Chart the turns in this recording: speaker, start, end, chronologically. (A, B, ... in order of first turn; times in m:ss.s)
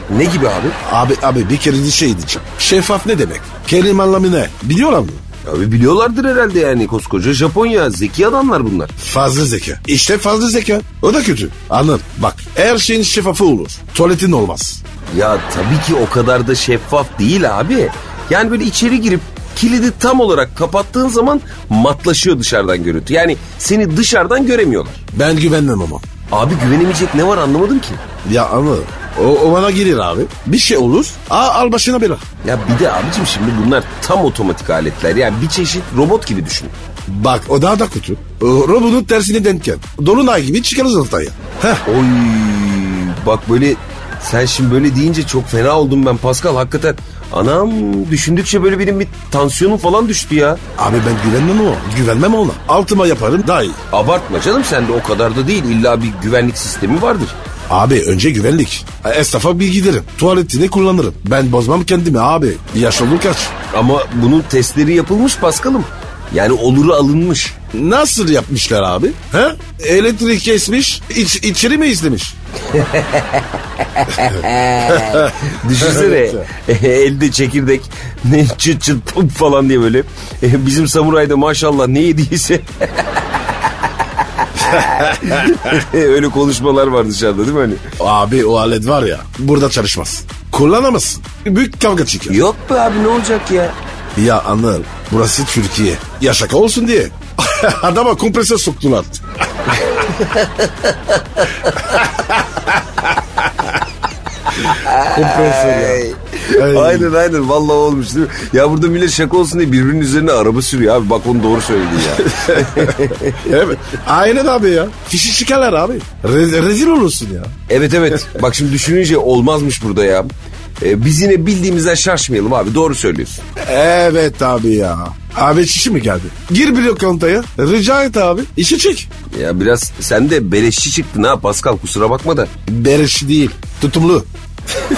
0:00.1-0:00.8 A
0:00.8-0:05.2 B
0:05.4-0:09.0 A
0:09.0-0:14.8 B
0:15.1-0:25.0 A
0:25.1-0:26.0 B
0:26.3-0:28.0 A
0:28.2-0:32.2 B
0:32.4-0:36.7 A
0:37.1-0:41.8 B
0:41.9-0:50.6 A
0:50.8-0:53.8 B
0:53.9-0:57.4 A
0:57.7-1:03.6 B
1:03.7-1:07.6 A
1:07.7-1:12.4 B
1:12.6-1:27.9 A
1:15.0-1:16.5 B
1:24.6-1:25.5 B
1:28.0-1:32.4 B
1:32.3-1:33.8 A
1:34.2-1:39.8 B
1:39.7-1:42.0 A
1:41.9-1:43.1 B
1:44.5-1:53.6 A
1:44.9-1:47.1 B
1:52.2-1:57.6 B
1:57.7-2:03.4 A
2:03.6-2:09.1 B
2:09.3-2:12.5 A
2:12.7-2:14.3 B